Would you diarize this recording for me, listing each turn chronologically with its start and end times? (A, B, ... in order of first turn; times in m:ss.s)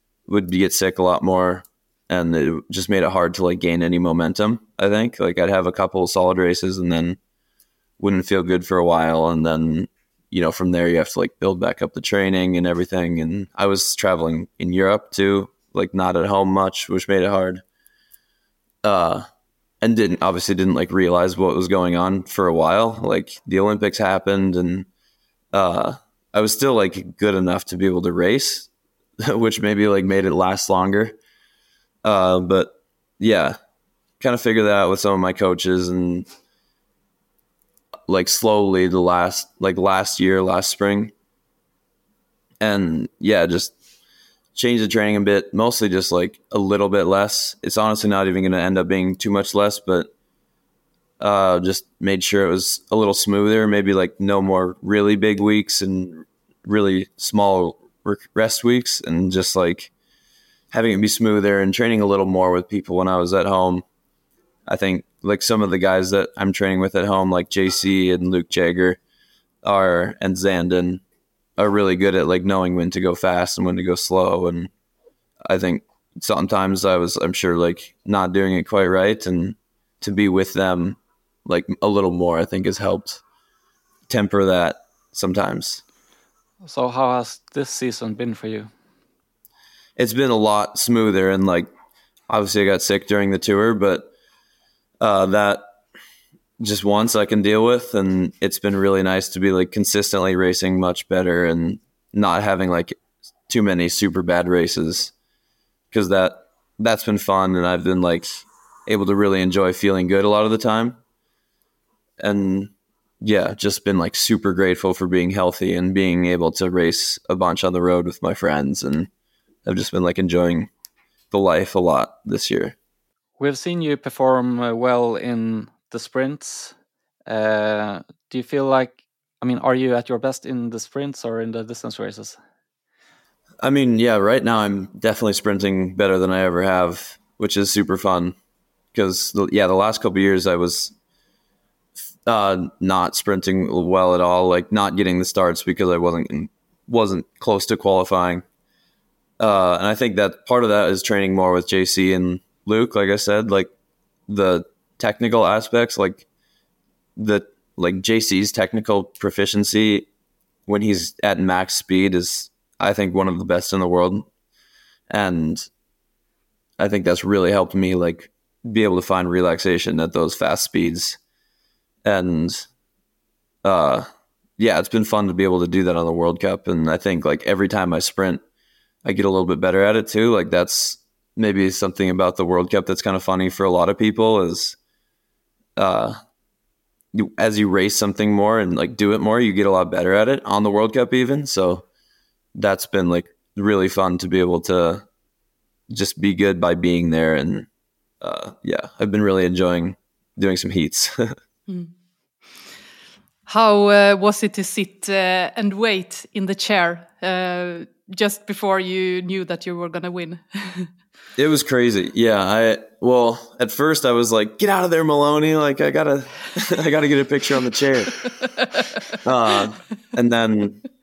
0:00.3-0:07.2 A
0:08.0-0:17.6 A
0:18.8-0:19.3 A
0:19.8-0:24.9 A
0:25.5-0:28.7 A
0:29.2-0:31.2 A
0:32.0-0:33.6 A
0:34.2-0:36.3 A
0:38.1-0:41.1 A
0:42.6-0:43.7 A
0:44.6-0:50.1 A
0:51.2-0:59.9 A
1:00.7-1:03.8 A
1:04.7-1:09.0 A
1:09.6-1:11.0 A
1:11.6-1:14.7 A
1:15.4-1:23.2 A
1:24.1-1:25.8 A
1:26.6-1:28.7 B
1:30.0-1:31.7 A
1:32.3-1:34.1 A
1:35.0-1:35.6 A
1:36.6-1:43.0 A
1:43.5-1:45.1 A
1:45.9-1:51.0 A
1:52.2-1:59.1 A
1:59.6-2:00.7 A
2:01.3-2:02.8 A
2:03.4-2:06.7 B
2:07.3-2:12.4 B
2:13.6-2:18.4 A
2:18.9-2:20.9 A
2:22.2-2:28.4 A
2:29.4-2:33.7 A
2:34.3-2:36.2 A
2:37.2-2:40.1 A
2:40.7-2:44.3 A
2:45.1-2:45.7 A
2:46.8-2:51.2 A
2:52.0-2:52.7 A
2:53.6-2:54.1 A
2:54.6-2:58.4 A
2:59.0-3:04.8 A
3:05.8-3:06.2 A
3:07.1-3:11.9 A
3:12.6-3:15.1 A
3:15.9-3:17.7 A
3:18.2-3:21.4 A
3:21.7-3:21.9 C
3:23.5-3:30.9 C
3:31.4-3:38.2 A
3:38.4-3:39.0 C
3:39.2-3:40.8 A